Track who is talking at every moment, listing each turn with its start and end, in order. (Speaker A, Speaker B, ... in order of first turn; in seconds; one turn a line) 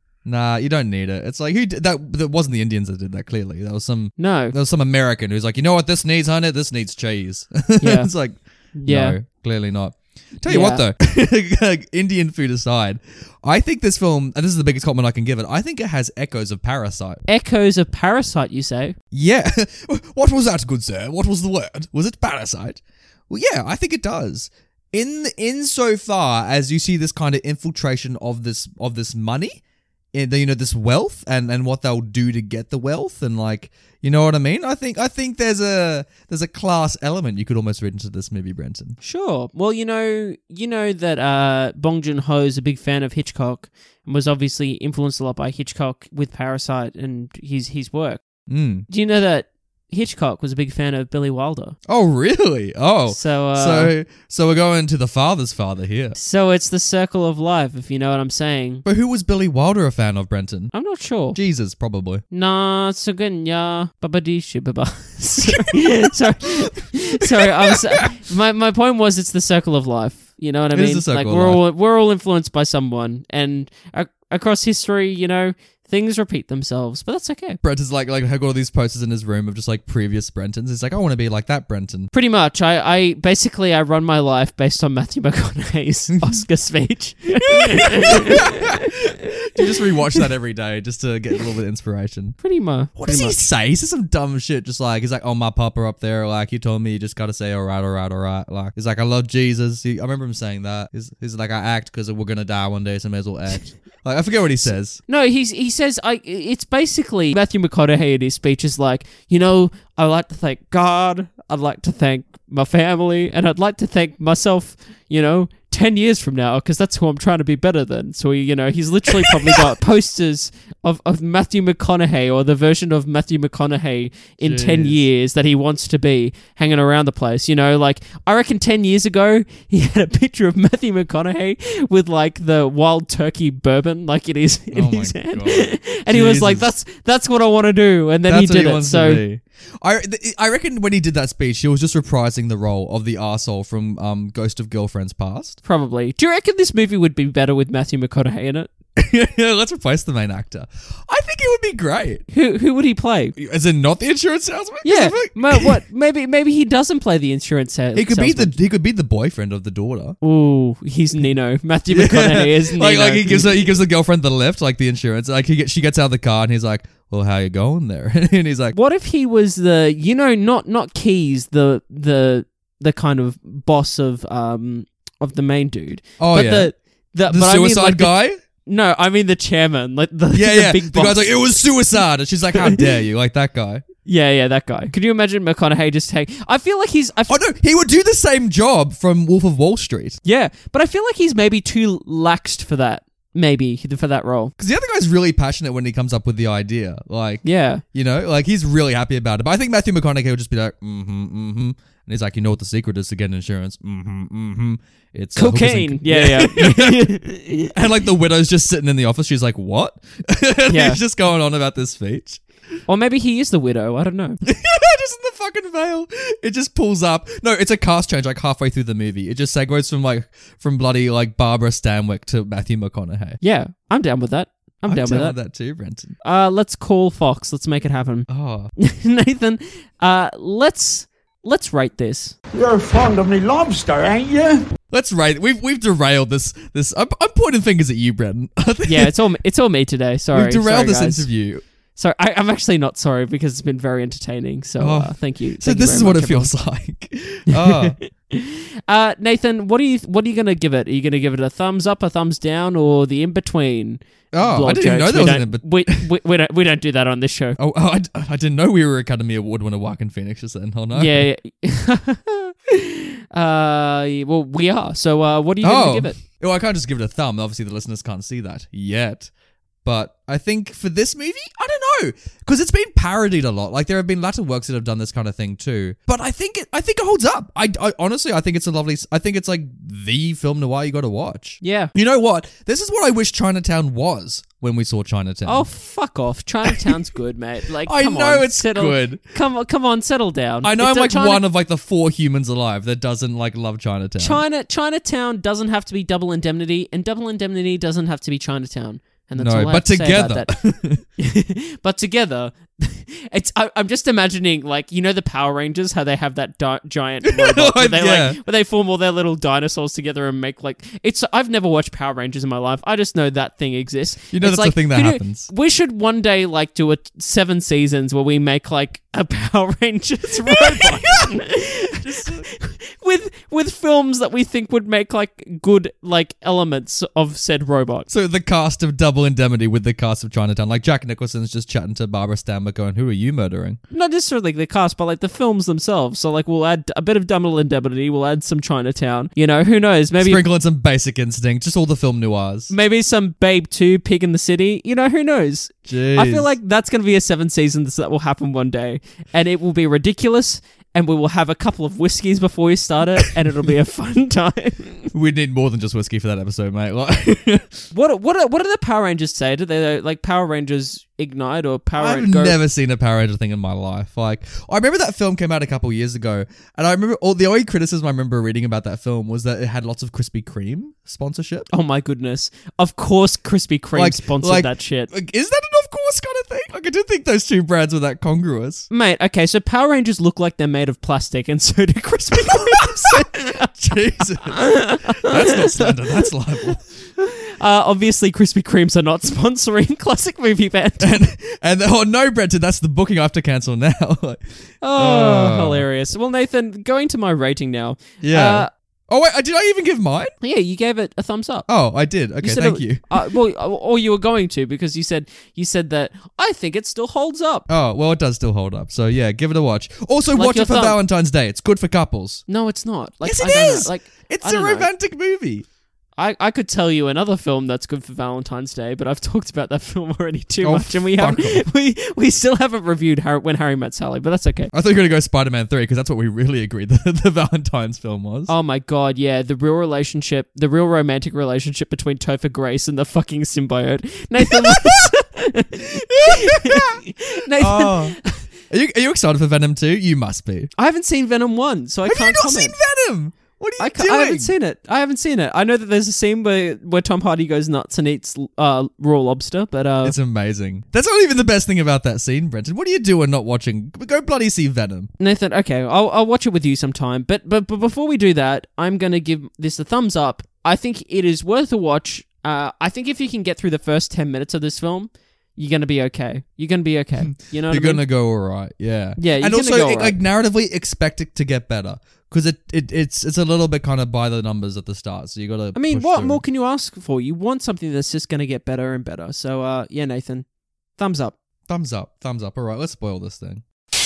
Speaker A: 0.2-17.2
Speaker B: 4.2-4.5
Speaker B: 7.8-8.1
Speaker B: 8.8-9.2
Speaker B: 10.5-10.8
Speaker B: 17.3-19.0
Speaker A: 19.1-29.6
Speaker A: 30.1-39.0
Speaker B: 39.0-48.2
Speaker A: 48.5-48.9
Speaker B: 48.9-51.8
Speaker A: 51.9-56.2
Speaker B: 53.1-53.9
Speaker B: 56.2-58.9
Speaker A: 58.9-60.7
Speaker B: 60.7-61.4
Speaker A: 61.3-62.2
Speaker B: 62.3-77.6
Speaker A: 65.5-66.2
Speaker A: 67.2-68.1
Speaker A: 70.7-71.6
Speaker A: 77.6-82.1
Speaker B: 82.1-89.0
Speaker A: 87.5-92.4
Speaker B: 89.6-90.2
Speaker B: 92.4-93.5
Speaker A: 93.0-105.0
Speaker B: 105.1-139.2
Speaker A: 124.4-125.0
Speaker A: 134.7-136.7
Speaker A: 138.3-145.6
Speaker B: 145.6-148.7
Speaker A: 149.0-152.2
Speaker B: 152.3-153.3
Speaker A: 153.4-155.8
Speaker B: 154.8-158.6
Speaker A: 157.9-160.2
Speaker B: 160.2-163.7
Speaker A: 161.9-168.8
Speaker B: 168.7-181.6
Speaker A: 176.2-176.7
Speaker A: 177.3-178.4
Speaker A: 180.3-183.8
Speaker B: 184.1-187.4
Speaker A: 187.3-190.2
Speaker B: 190.2-194.5
Speaker A: 194.6-207.1
Speaker B: 197.4-197.8
Speaker B: 205.4-207.7
Speaker A: 207.7-212.4
Speaker B: 210.7-211.0
Speaker B: 212.9-214.4
Speaker A: 214.4-223.4
Speaker B: 223.4-225.4
Speaker A: 224.9-226.2
Speaker B: 226.2-232.4
Speaker A: 228.3-228.7
Speaker C: 232.5-234.7
Speaker A: 234.9-239.1
Speaker B: 238.9-241.3
Speaker A: 240.3-241.6
Speaker B: 242.0-246.5
Speaker A: 244.8-248.0
Speaker B: 247.5-257.6
Speaker A: 254.3-256.1
Speaker A: 257.6-261.3
Speaker B: 260.9-266.2
Speaker A: 265.6-269.3
Speaker A: 269.8-285.7
Speaker B: 281.6-281.9
Speaker B: 285.5-291.4
Speaker A: 286.7-287.0
Speaker A: 287.9-289.2
Speaker A: 290.6-294.4
Speaker B: 294.2-300.6
Speaker A: 299.4-301.0
Speaker B: 301.2-328.1
Speaker A: 307.2-308.4
Speaker A: 314.3-315.5
Speaker A: 320.7-322.5
Speaker A: 328.1-333.8
Speaker B: 333.9-340.4
Speaker A: 340.2-342.7
Speaker B: 342.7-355.1
Speaker A: 345.9-346.5
Speaker A: 355.1-357.9
Speaker B: 357.9-362.6
Speaker A: 362.0-371.7
Speaker B: 371.7-375.1
Speaker A: 373.9-378.9
Speaker B: 378.9-383.7
Speaker A: 382.4-386.9
Speaker B: 384.5-386.0
Speaker B: 387.2-391.2
Speaker A: 391.0-395.9
Speaker B: 394.8-398.7
Speaker A: 398.2-400.3
Speaker B: 400.4-401.7
Speaker A: 401.7-403.1
Speaker B: 402.4-407.7
Speaker A: 407.7-412.5
Speaker B: 410.3-411.0
Speaker B: 412.5-414.9
Speaker A: 413.2-415.7
Speaker B: 416.2-424.7
Speaker A: 420.6-421.6
Speaker A: 424.7-428.5
Speaker B: 428.5-438.5
Speaker A: 434.4-435.1
Speaker A: 436.1-437.0
Speaker A: 437.6-440.7
Speaker B: 440.8-442.8
Speaker A: 442.1-444.5
Speaker B: 443.8-450.1
Speaker A: 450.0-455.1
Speaker B: 455.2-468.0
Speaker A: 467.2-476.4
Speaker B: 469.2-470.1
Speaker B: 475.8-480.5
Speaker B: 481.0-481.4
Speaker A: 481.7-483.6